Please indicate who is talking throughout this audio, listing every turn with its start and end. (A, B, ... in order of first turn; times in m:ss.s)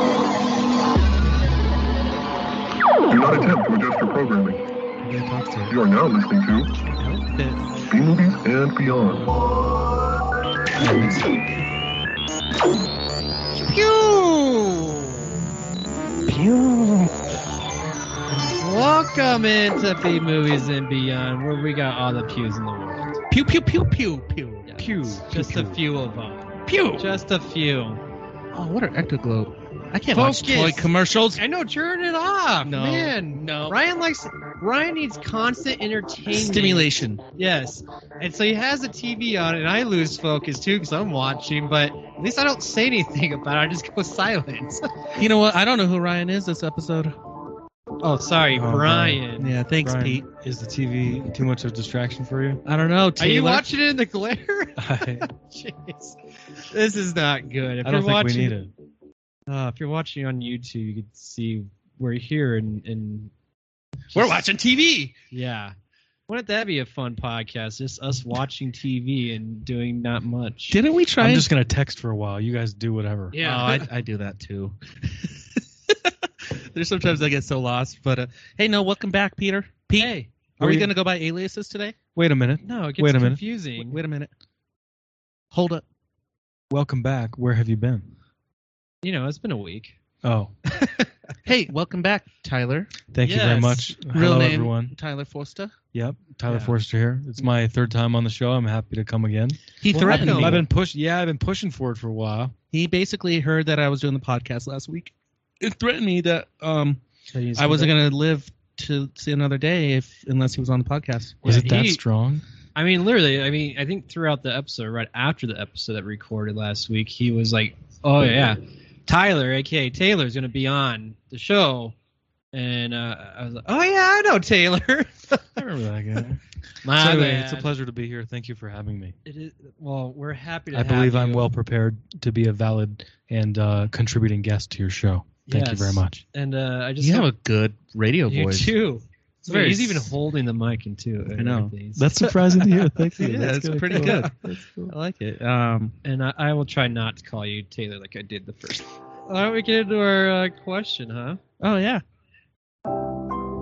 0:03.1-0:04.6 A
0:05.0-0:05.8 B
0:05.7-0:06.7 A
0:07.0-0:07.6 B
0:07.9-0:09.3 A
0:10.8-0:11.2 C
0:10.9-0:11.2 B
0:13.5-0:15.4 D
0:18.5-0:23.2 D
0:23.3-0:24.7 B
0:24.7-0:28.0 D
0:24.8-0:25.8 C
0:26.7-0:27.1 B
0:28.5-0:31.4 B
0:30.1-0:45.2 D
0:32.6-0:33.8 B
0:36.3-0:37.2 B
0:45.2-0:47.2 B
0:48.0-0:49.6 D
0:48.5-0:49.2 C
0:49.3-0:50.3 B
0:49.8-0:52.6 C
0:52.6-0:53.7 B
0:53.2-0:58.6 D
0:54.8-0:55.3 C
0:57.8-0:58.7 C
0:59.5-1:03.3 D
1:04.1-1:04.5 D
1:04.1-1:05.2 B
1:05.3-1:05.8 D
1:06.3-1:10.8 D
1:10.7-1:11.5 B
1:11.2-1:13.4 C
1:13.3-1:13.9 D
1:13.4-1:22.0 B
1:20.0-1:20.3 D
1:20.6-1:20.9 C
1:22.2-1:23.4 C
1:22.6-1:24.0 D
1:23.8-1:24.3 B
1:25.5-1:25.8 B
1:26.7-1:28.1 C
1:29.0-1:30.0 D
1:30.2-1:30.5 C
1:30.7-1:31.1 D
1:31.4-1:32.9 B
1:33.1-1:34.9 C
1:33.2-1:34.0 D
1:34.0-1:35.8 B
1:35.9-1:42.5 C
1:36.5-1:36.8 D
1:39.8-1:40.7 B
1:40.0-1:40.7 D
1:42.7-1:47.0 B
1:47.3-1:47.9 D
1:47.6-1:51.4 B
1:51.4-1:52.0 D
1:51.4-1:52.4 C
1:52.8-2:02.0 D
2:02.5-2:05.5 D
2:05.6-2:09.2 C
2:06.8-2:07.7 D
2:09.3-2:11.5 D
2:10.7-2:16.2 C
2:15.5-2:17.3 D
2:17.0-2:18.7 B
2:18.3-2:24.6 D
2:19.5-2:20.1 B
2:21.4-2:21.7 B
2:22.0-2:24.3 C
2:23.2-2:26.0 B
2:26.0-2:31.4 D
2:31.6-2:32.0 B